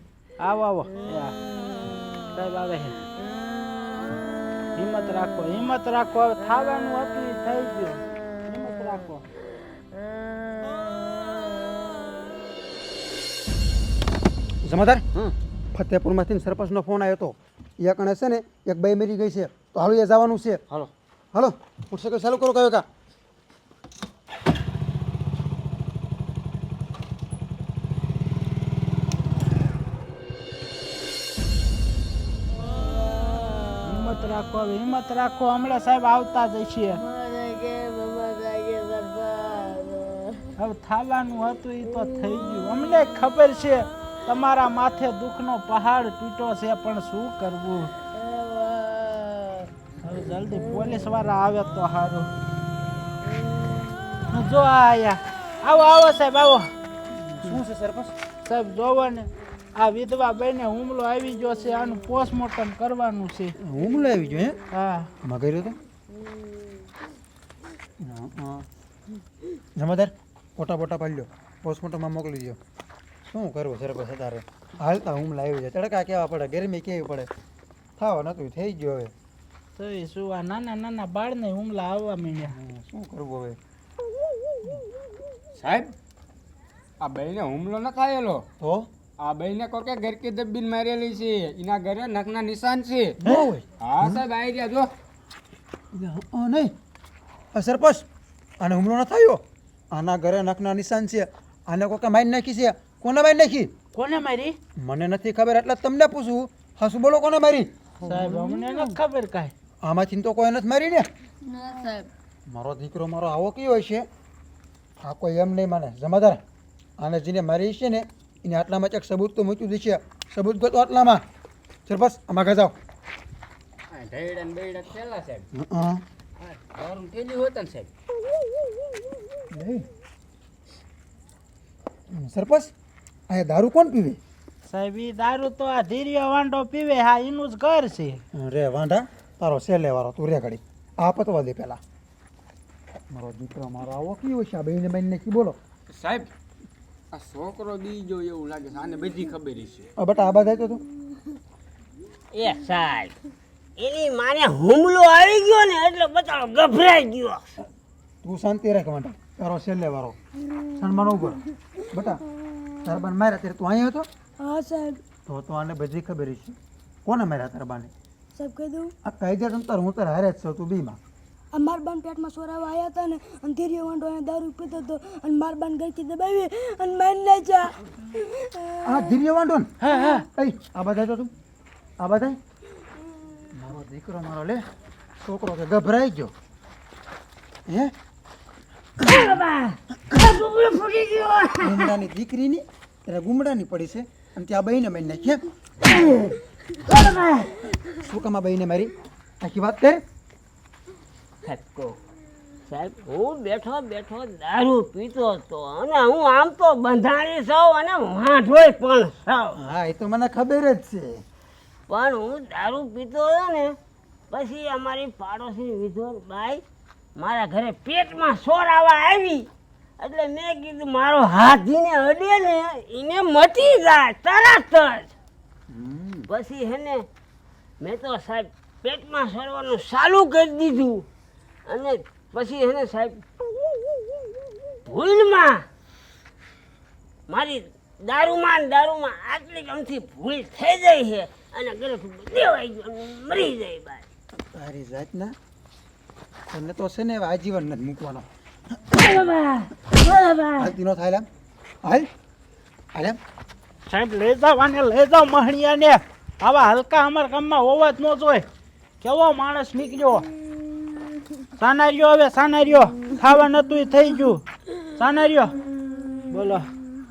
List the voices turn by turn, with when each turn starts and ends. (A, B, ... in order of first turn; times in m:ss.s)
0:00.4-0:01.4 A
0:02.3-0:03.0 A
0:04.8-0:09.2 A
0:14.6-0:15.2 B
0:15.7-0:20.6 B
0:21.3-0:22.8 B
0:32.7-0:34.1 C
0:33.8-0:37.0 A
0:37.0-0:40.5 C
0:40.6-0:47.9 A
0:42.1-0:42.5 C
0:48.1-0:49.7 C
0:50.0-0:52.3 A
0:54.3-0:56.7 A
0:57.2-0:58.1 B
0:58.4-1:03.6 A
1:03.6-1:04.6 B
1:04.7-1:05.1 A
1:05.2-1:05.8 B
1:08.0-1:08.7 B
1:09.8-1:12.6 B
1:13.3-1:17.3 B
1:18.0-1:19.1 B
1:19.8-1:22.5 A
1:22.4-1:23.6 B
1:25.6-1:25.9 D
1:27.0-1:28.4 D
1:28.6-1:28.9 B
1:29.2-1:33.2 D
1:33.2-1:34.2 B
1:33.8-1:34.9 D
1:35.9-1:36.7 B
1:37.5-1:38.1 B
1:38.6-1:39.4 B
1:39.9-1:43.7 B
1:43.9-1:44.6 A
1:44.8-1:47.7 B
1:48.0-1:49.5 A
1:49.8-1:51.1 B
1:51.4-1:52.1 C
1:52.5-1:54.1 B
1:55.0-1:56.4 B
1:57.0-2:01.2 B
2:01.9-2:02.8 B
2:03.9-2:05.5 D
2:05.5-2:06.0 B
2:06.4-2:07.9 D
2:09.5-2:09.9 B
2:12.2-2:12.7 B
2:13.3-2:14.2 B
2:14.7-2:18.2 A
2:18.3-2:21.8 B
2:23.1-2:25.6 B
2:25.9-2:26.3 D
2:27.1-2:29.9 D
2:30.0-2:30.8 B
2:32.3-2:33.2 E
2:33.8-2:37.5 E
2:38.2-2:40.2 B
2:40.7-2:42.2 B
2:42.8-2:44.1 B
2:44.4-2:45.0 F
2:45.3-2:47.9 B
2:48.4-2:48.9 F
2:49.0-2:51.0 B
2:51.5-2:58.8 F
2:58.8-3:01.3 B
2:59.8-3:00.3 A
3:02.0-3:02.4 B
3:03.6-3:04.6 B
3:05.2-3:06.3 B
3:07.7-3:07.9 B
3:09.0-3:11.9 E
3:11.6-3:15.4 B
3:15.9-3:16.4 E
3:16.9-3:17.6 E
3:18.0-3:20.0 B
3:21.4-3:22.0 E
3:22.7-3:29.6 E
3:29.6-3:31.2 B
3:31.9-3:33.8 E
3:34.3-3:36.6 E
3:37.2-3:39.5 E
3:40.0-3:45.1 E
3:45.7-3:46.3 B
3:46.3-3:47.0 E
3:47.8-3:51.1 E
3:51.7-3:53.2 E
3:54.9-3:55.6 E
3:57.3-4:04.0 E
4:04.5-4:05.3 B
4:06.5-4:09.2 B
4:08.9-4:10.7 E
4:10.6-4:11.3 B
4:11.8-4:12.1 B
4:13.9-4:18.5 A
4:19.0-4:20.3 A
4:21.6-4:24.4 A
4:25.0-4:25.6 A
4:26.3-4:26.7 A